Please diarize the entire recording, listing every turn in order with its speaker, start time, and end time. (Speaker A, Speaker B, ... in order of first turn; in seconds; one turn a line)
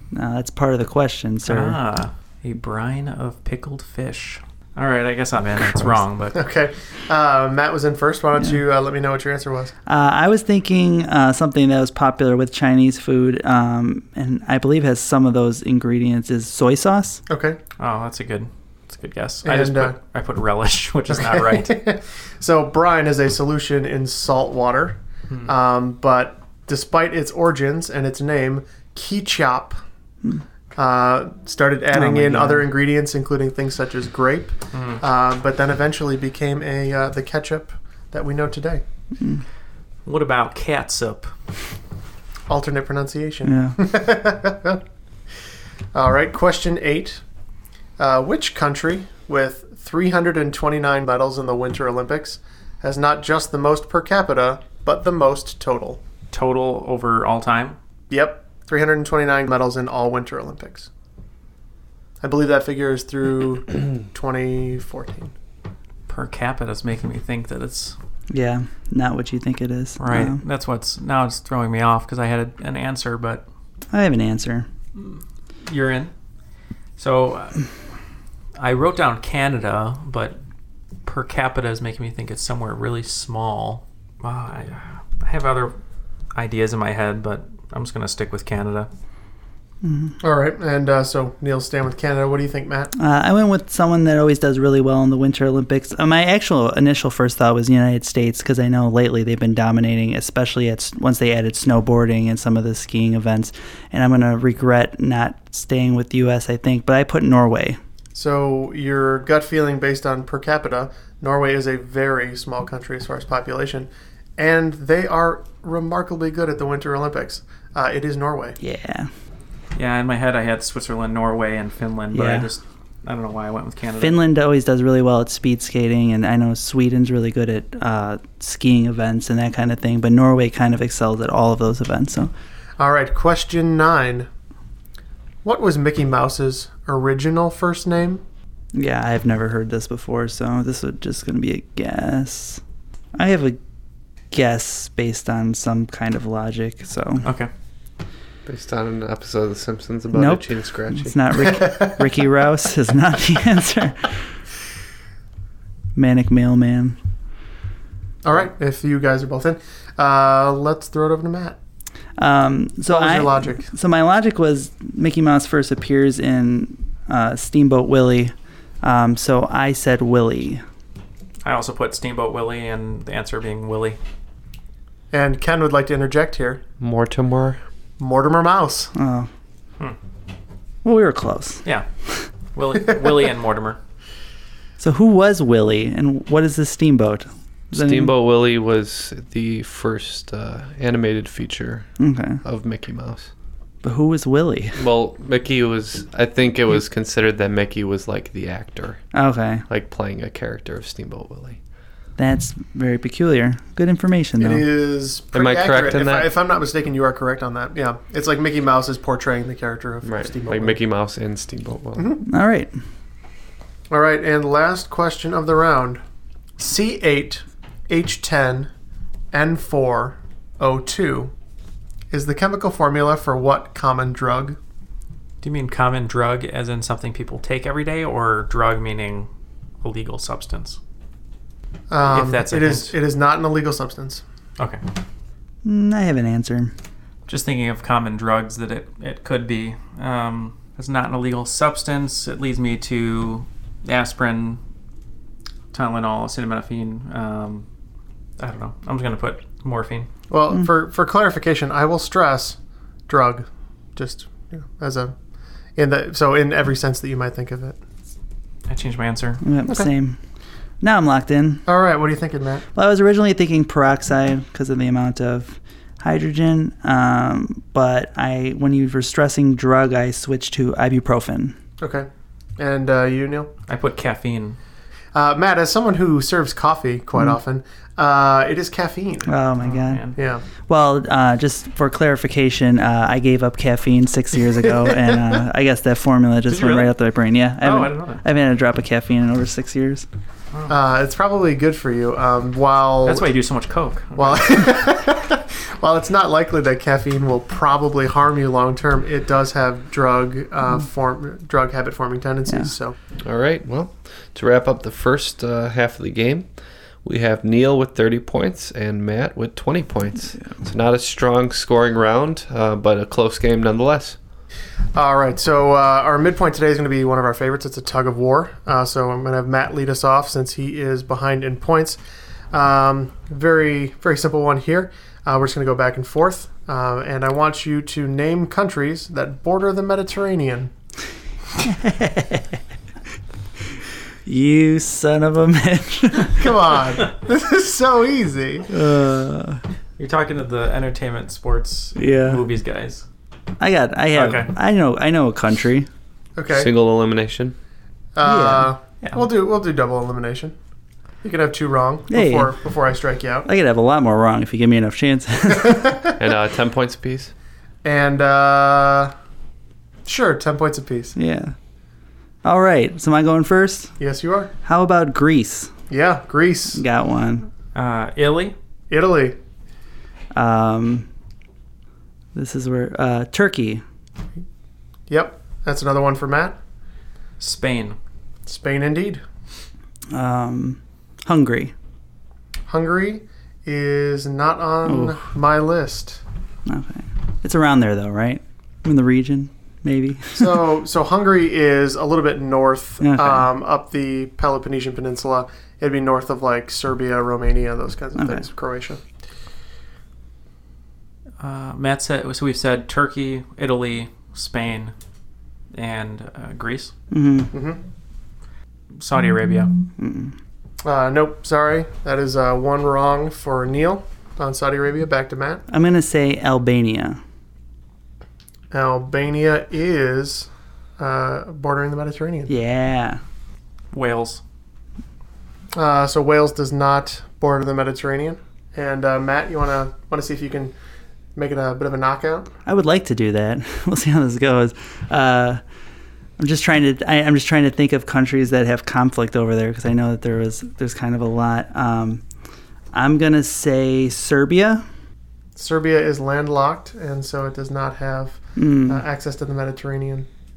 Speaker A: 0.1-1.8
Speaker B: 1.5-6.3
Speaker A: 5.6-6.0
Speaker C: 6.3-9.7
Speaker A: 9.9-17.2
Speaker C: 17.3-17.6
Speaker B: 17.8-21.7
Speaker C: 19.4-19.9
Speaker C: 21.1-29.8
Speaker C: 30.7-38.8
Speaker A: 31.9-32.7
Speaker B: 34.7-35.0
Speaker A: 39.2-39.4
Speaker B: 40.0-41.3
Speaker C: 42.5-44.8
Speaker A: 43.4-43.8
Speaker C: 45.9-47.2
Speaker C: 48.0-56.0
Speaker B: 56.3-57.8
Speaker C: 58.1-60.9
Speaker C: 62.2-65.3
Speaker B: 66.1-68.0
Speaker A: 68.3-70.4
Speaker B: 70.0-73.4
Speaker A: 73.9-74.7
Speaker B: 74.9-76.1
Speaker B: 77.0-77.6
Speaker B: 78.6-80.4
Speaker B: 81.0-85.7
Speaker B: 86.3-88.9
Speaker A: 89.8-90.2
Speaker C: 90.2-92.9
Speaker A: 93.0-107.8
Speaker C: 108.1-118.6
Speaker A: 118.6-119.1
Speaker B: 119.7-124.2
Speaker A: 122.1-122.5
Speaker A: 124.0-132.3
Speaker C: 132.8-134.3
Speaker C: 135.4-138.2
Speaker A: 138.7-142.6
Speaker A: 143.1-143.6
Speaker A: 144.3-147.3
Speaker B: 147.2-147.5
Speaker D: 148.4-151.2
Speaker A: 150.1-154.2
Speaker C: 151.5-152.0
Speaker A: 155.9-157.0
Speaker C: 158.2-161.6
Speaker A: 162.2-170.6
Speaker C: 162.9-163.6
Speaker B: 171.4-174.0
Speaker C: 175.1-176.6
Speaker D: 176.8-177.6
Speaker C: 178.0-178.9
Speaker A: 178.9-179.3
Speaker A: 180.8-181.6
Speaker B: 182.5-183.8
Speaker A: 184.8-188.1
Speaker D: 187.7-191.9
Speaker A: 192.0-192.4
Speaker D: 192.4-193.3
Speaker A: 193.8-194.8
Speaker D: 194.8-199.0
Speaker A: 199.1-199.7
Speaker D: 199.7-201.6
Speaker A: 202.2-204.7
Speaker C: 204.4-210.8
Speaker D: 205.3-206.3
Speaker D: 210.0-212.1
Speaker A: 212.2-212.7
Speaker C: 213.9-216.0
Speaker C: 216.6-218.7
Speaker C: 219.3-221.3
Speaker C: 222.1-224.6
Speaker B: 225.4-229.3
Speaker B: 229.8-230.8
Speaker C: 231.9-234.2
Speaker B: 232.1-232.9
Speaker A: 235.6-236.7
Speaker B: 237.3-244.6
Speaker B: 245.7-247.7
Speaker B: 248.4-250.1
Speaker C: 250.3-252.6
Speaker C: 253.1-255.1
Speaker C: 255.8-257.8
Speaker B: 258.7-259.4
Speaker A: 259.4-260.2
Speaker A: 260.8-261.6
Speaker C: 261.6-262.6
Speaker A: 262.7-271.6
Speaker C: 271.8-273.5
Speaker B: 273.7-274.6
Speaker C: 275.1-279.3
Speaker A: 279.3-280.1
Speaker B: 279.6-280.1
Speaker C: 280.2-280.4
Speaker A: 280.7-290.1
Speaker C: 284.7-285.3
Speaker B: 286.5-286.9
Speaker B: 287.6-288.2
Speaker C: 290.7-293.3
Speaker B: 293.0-294.8
Speaker C: 294.2-302.9
Speaker A: 302.5-302.7
Speaker D: 303.2-306.5
Speaker D: 307.0-314.2
Speaker C: 314.9-322.0
Speaker C: 322.5-330.7
Speaker A: 331.6-332.6
Speaker A: 334.2-336.5
Speaker C: 336.4-338.7
Speaker A: 338.7-339.6
Speaker B: 340.0-343.0
Speaker A: 341.9-342.4
Speaker A: 343.6-345.9
Speaker B: 344.1-344.5
Speaker C: 346.4-346.7
Speaker D: 346.5-347.5
Speaker C: 348.1-350.5
Speaker A: 348.2-348.7
Speaker C: 351.2-353.5
Speaker A: 352.1-352.6
Speaker A: 353.4-356.0
Speaker C: 355.5-356.1
Speaker D: 356.2-357.3
Speaker C: 357.8-359.1
Speaker C: 360.1-361.1
Speaker A: 361.1-361.5
Speaker A: 362.4-363.9
Speaker C: 364.0-364.5
Speaker A: 364.6-365.7
Speaker C: 365.9-366.8
Speaker A: 366.7-367.5
Speaker B: 367.7-368.5
Speaker C: 368.9-369.4
Speaker A: 370.3-371.1
Speaker A: 372.3-373.8
Speaker C: 375.1-376.6
Speaker B: 377.4-378.0
Speaker C: 378.4-379.2
Speaker A: 380.1-381.7
Speaker C: 382.7-386.2
Speaker A: 384.8-385.2
Speaker A: 386.6-390.6
Speaker C: 390.4-399.0
Speaker A: 393.0-393.5
Speaker A: 398.1-398.5
Speaker B: 401.4-404.9
Speaker B: 405.7-406.9
Speaker A: 407.1-407.5
Speaker C: 407.5-407.8
Speaker B: 409.0-409.7
Speaker A: 410.0-410.3
Speaker C: 410.8-415.6
Speaker A: 415.7-417.2
Speaker C: 418.7-422.5
Speaker A: 422.5-423.2
Speaker B: 423.9-424.4
Speaker C: 425.7-430.7
Speaker C: 431.3-432.5
Speaker A: 432.6-435.6
Speaker A: 436.4-442.2
Speaker A: 442.9-444.8
Speaker C: 445.6-450.3
Speaker A: 448.6-449.0